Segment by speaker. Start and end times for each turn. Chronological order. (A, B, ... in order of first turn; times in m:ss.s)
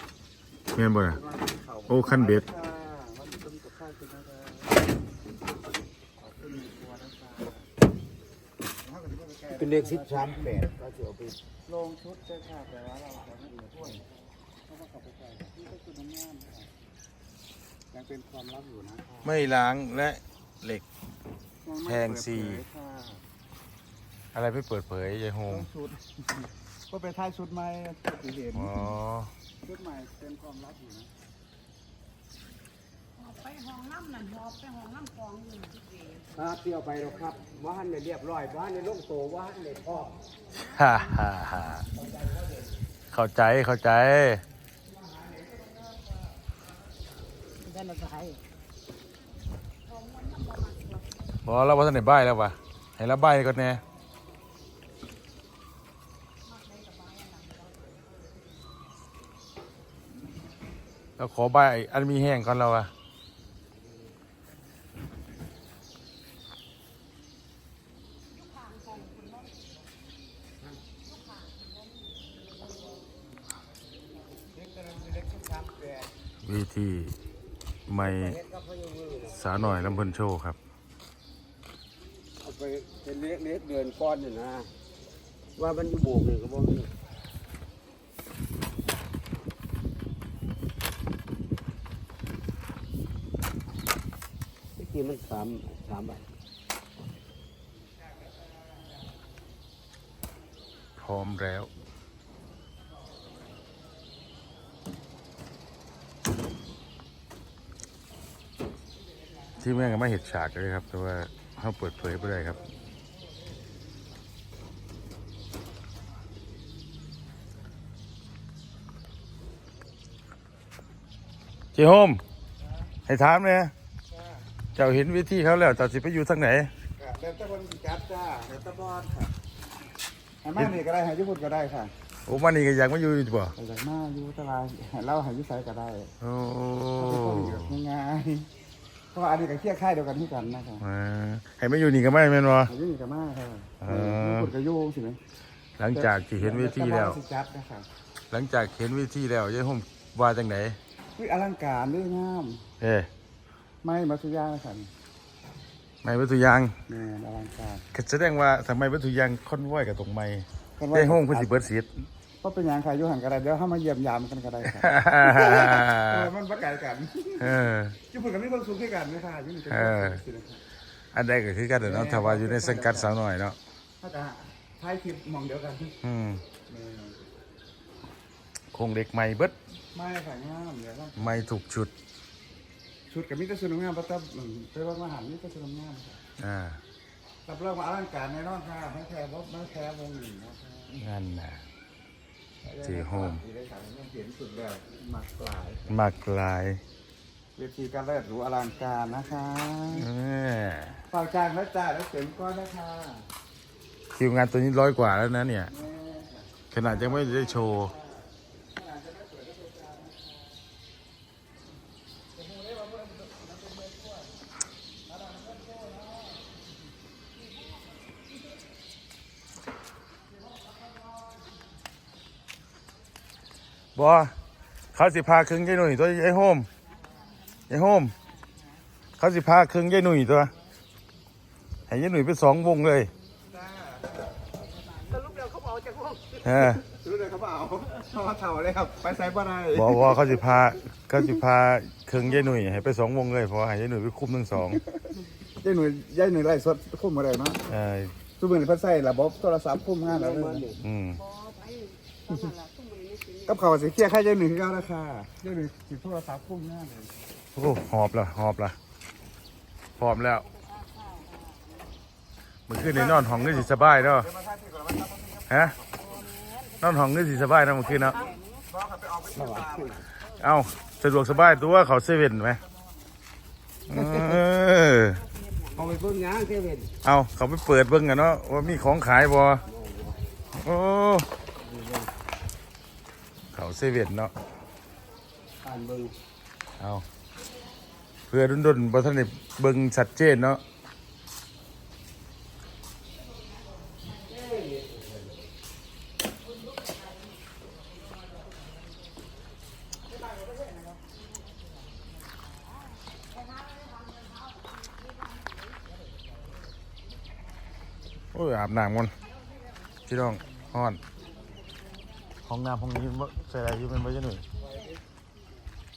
0:00.7-0:01.2 A
0:01.2-0:04.7 B
0:01.9-0:02.4 A
0:06.2-0:07.6 B
0:08.8-0:10.5 B
0:09.5-0:11.4 C
0:11.6-0:14.0 B
0:14.7-0:16.7 B
0:17.9-0:19.2 B
0:19.2-0:20.8 A
0:21.6-0:23.2 B
0:21.8-0:22.6 A
0:24.3-0:25.7 A
0:25.5-0:26.2 B
0:26.9-0:28.7 B
0:28.5-0:29.3 A
0:29.6-0:31.1 B
0:33.2-0:36.2 D
0:36.3-0:40.2 C
0:40.6-0:41.9 A
0:43.1-0:44.4 A
0:47.6-0:48.4 D
0:50.1-0:50.9 D
0:51.4-0:53.8 A
1:01.2-1:02.9 A
1:08.6-1:09.3 D
1:14.6-1:16.0 B
1:16.4-1:17.2 A
1:17.9-1:18.4 A
1:18.1-1:19.9 C
1:19.3-1:20.6 A
1:22.4-1:24.7 C
1:25.6-1:26.9 C
1:34.8-1:36.3 C
1:41.0-1:41.7 A
1:49.6-1:52.6 A
2:01.7-2:02.2 A
2:03.1-2:03.7 A
2:04.8-2:06.7 A
2:07.0-2:09.3 B
2:10.4-2:11.9 B
2:12.2-2:13.5 A
2:13.6-2:16.1 B
2:16.2-2:17.8 A
2:17.0-2:18.5 B
2:19.1-2:20.8 B
2:20.8-2:22.7 A
2:22.7-2:25.2 B
2:23.8-2:24.5 A
2:25.8-2:27.2 A
2:25.9-2:27.9 B
2:28.3-2:30.8 A
2:31.2-2:32.6 B
2:32.8-2:33.1 A
2:33.8-2:34.9 B
2:36.0-2:36.8 A
2:36.9-2:37.8 B
2:37.9-2:42.0 A
2:40.8-2:41.6 B
2:42.4-2:47.5 B
2:44.7-2:46.3 A
2:47.4-2:48.0 A
2:48.1-2:50.6 B
2:49.7-2:50.2 A
2:51.1-2:53.6 A
2:51.8-2:53.1 B
2:54.0-2:55.9 B
2:56.0-2:56.4 A
2:56.7-2:57.2 B
2:58.7-2:59.6 A
2:59.9-3:01.2 B
3:01.2-3:01.9 A
3:03.1-3:06.2 B
3:06.4-3:06.8 A
3:07.4-3:11.0 B
3:10.9-3:11.6 A
3:12.6-3:15.9 B
3:12.8-3:13.4 A
3:15.9-3:16.8 A
3:17.6-3:20.1 B
3:19.9-3:21.0 A
3:21.1-3:23.2 B
3:24.1-3:25.7 A
3:25.8-3:28.0 B
3:26.7-3:27.9 A
3:28.8-3:30.1 B
3:43.9-3:44.3 A
3:44.9-3:46.7 A
3:47.7-3:48.1 A
3:49.2-3:50.5 A
3:51.9-3:53.1 A
3:53.5-3:54.4 B
3:54.8-3:56.2 D
3:56.4-3:56.8 A
3:56.8-4:00.2 B
3:59.7-4:04.8 A
4:05.6-4:07.6 B
4:07.7-4:08.1 A
4:08.4-4:10.6 B
4:10.0-4:10.8 C
4:10.8-4:11.2 A
4:11.1-4:13.7 D
4:13.5-4:17.1 B
4:17.5-4:18.8 A
4:20.0-4:20.4 A
4:20.4-4:21.7 D
4:22.7-4:24.3 A
4:22.9-4:23.6 B
4:24.3-4:25.3 B
4:25.5-4:25.8 A
4:26.0-4:28.6 D
4:26.8-4:28.2 A
4:28.7-4:29.9 B
4:29.3-4:30.0 C
4:30.4-4:32.6 A
4:33.9-4:35.2 A
4:33.9-4:34.4 C
4:35.5-4:35.8 D
4:35.7-4:36.9 C
4:37.0-4:39.6 A
4:39.7-4:40.1 C
4:40.5-4:41.3 A
4:41.6-4:42.1 C
4:43.5-4:44.3 A
4:45.6-4:46.1 C
4:46.8-4:47.0 A
4:48.3-4:50.6 A
4:54.4-4:55.2 C
5:00.2-5:01.0 D
5:08.3-5:09.1 A
5:10.1-5:11.0 A
5:12.4-5:14.4 A